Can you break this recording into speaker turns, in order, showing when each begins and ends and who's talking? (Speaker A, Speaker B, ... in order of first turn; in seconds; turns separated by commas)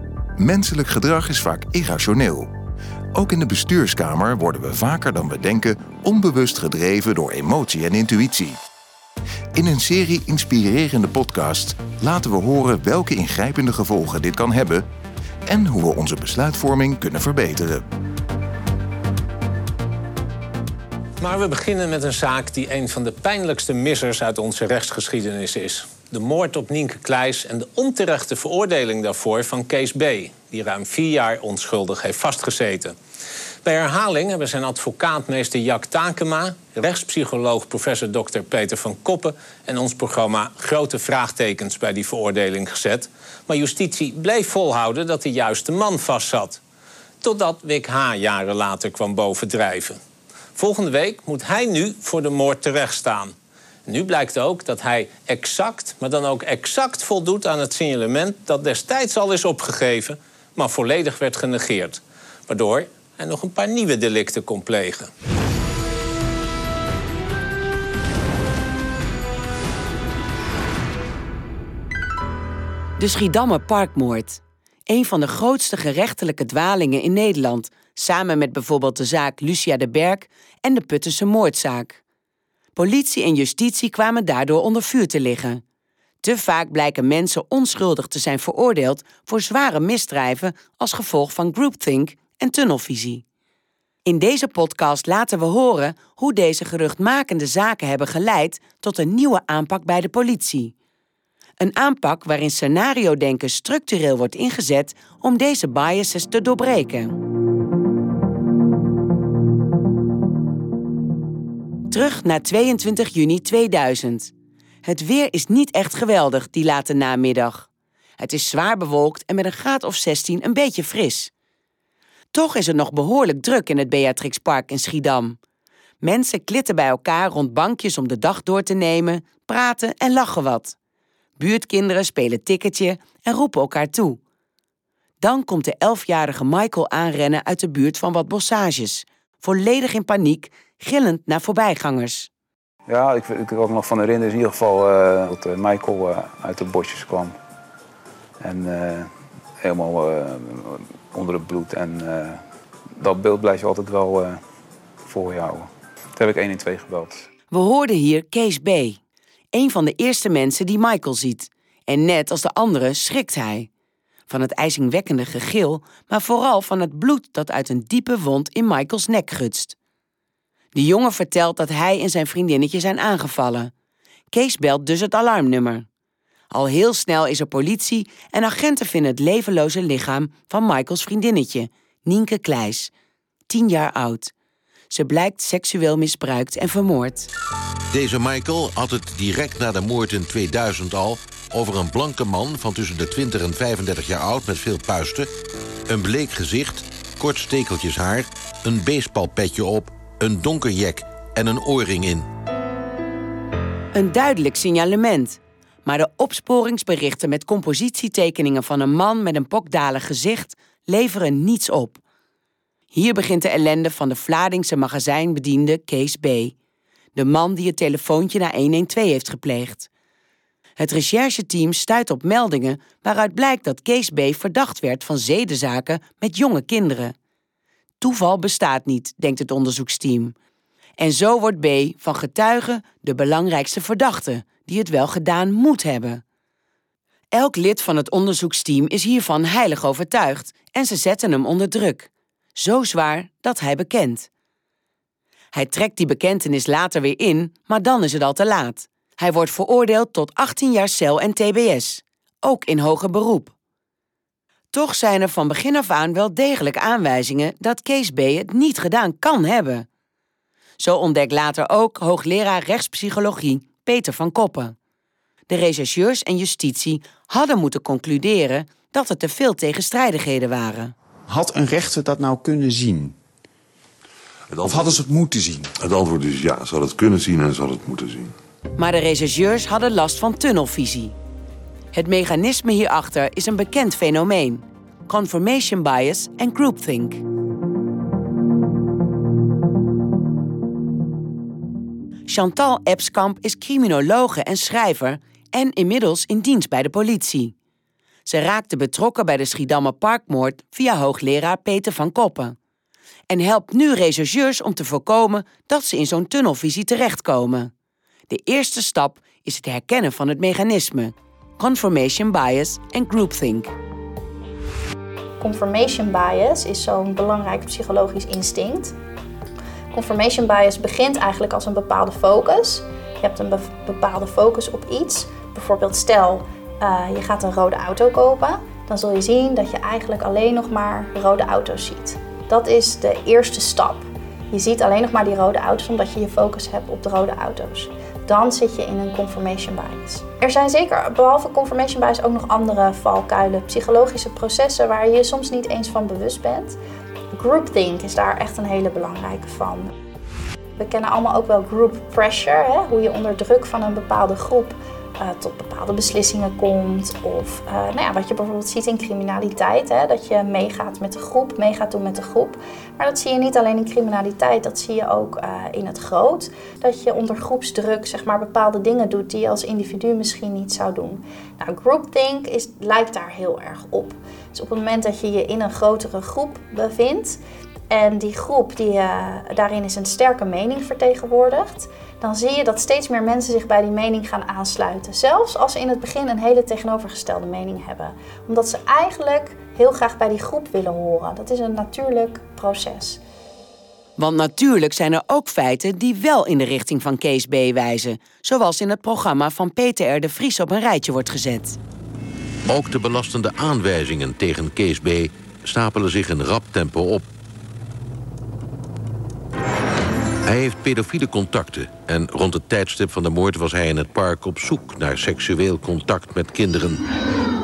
Speaker A: 0.4-2.5, Speaker A: 3.1-8.6, Speaker A: 9.6-14.8, Speaker A: 15.5-17.8, Speaker B: 21.2-33.0, Speaker B: 33.6-46.6, Speaker B: 47.2-50.0, Speaker B: 50.6-53.3, Speaker B: 53.9-65.1, Speaker C: 73.0-82.0, Speaker C: 82.8-85.6, Speaker C: 86.2-93.2, Speaker C: 94.1-100.7, Speaker C: 101.6-107.2, Speaker C: 111.9-114.3, Speaker C: 114.8-117.7, Speaker C: 118.2-121.3, Speaker C: 122.3-125.4, Speaker C: 126.0-130.8, Speaker C: 131.4-134.2, Speaker C: 135.2-142.3, Speaker D: 142.9-147.3, Speaker D: 148.4-149.1, Speaker D: 149.6-152.4, Speaker D: 153.0-154.4, Speaker D: 155.0-157.3, Speaker C: 157.5-159.0, Speaker C: 159.5-163.7, Speaker C: 164.3-169.8, Speaker C: 170.8-173.7, Speaker C: 174.3-175.9, Speaker C: 176.5-182.9, Speaker C: 183.5-184.3, Speaker C: 184.9-187.3, Speaker E: 187.9-195.3, Speaker E: 195.9-202.3, Speaker C: 203.9-212.0, Speaker C: 212.9-216.5, Speaker C: 217.2-219.9, Speaker C: 220.8-227.1, Speaker C: 228.0-230.3, Speaker C: 231.0-236.2, Speaker C: 237.3-244.3, Speaker C: 245.5-253.5, Speaker C: 254.7-259.9, Speaker C: 260.8-264.8, Speaker C: 265.5-270.9, Speaker F: 271.3-273.1, Speaker G: 274.5-275.1, Speaker F: 274.6-275.7, Speaker G: 275.8-278.3, Speaker C: 278.8-281.1, Speaker C: 281.9-287.2, Speaker C: 292.3-297.5, Speaker C: 298.3-302.6, Speaker C: 303.3-307.7, Speaker C: 308.3-313.7, Speaker H: 315.4-318.9, Speaker H: 319.9-346.8, Speaker H: 347.3-349.9, Speaker H: 350.8-393.2, Speaker C: 394.2-401.8, Speaker E: 402.7-407.3, Speaker E: 410.5-417.0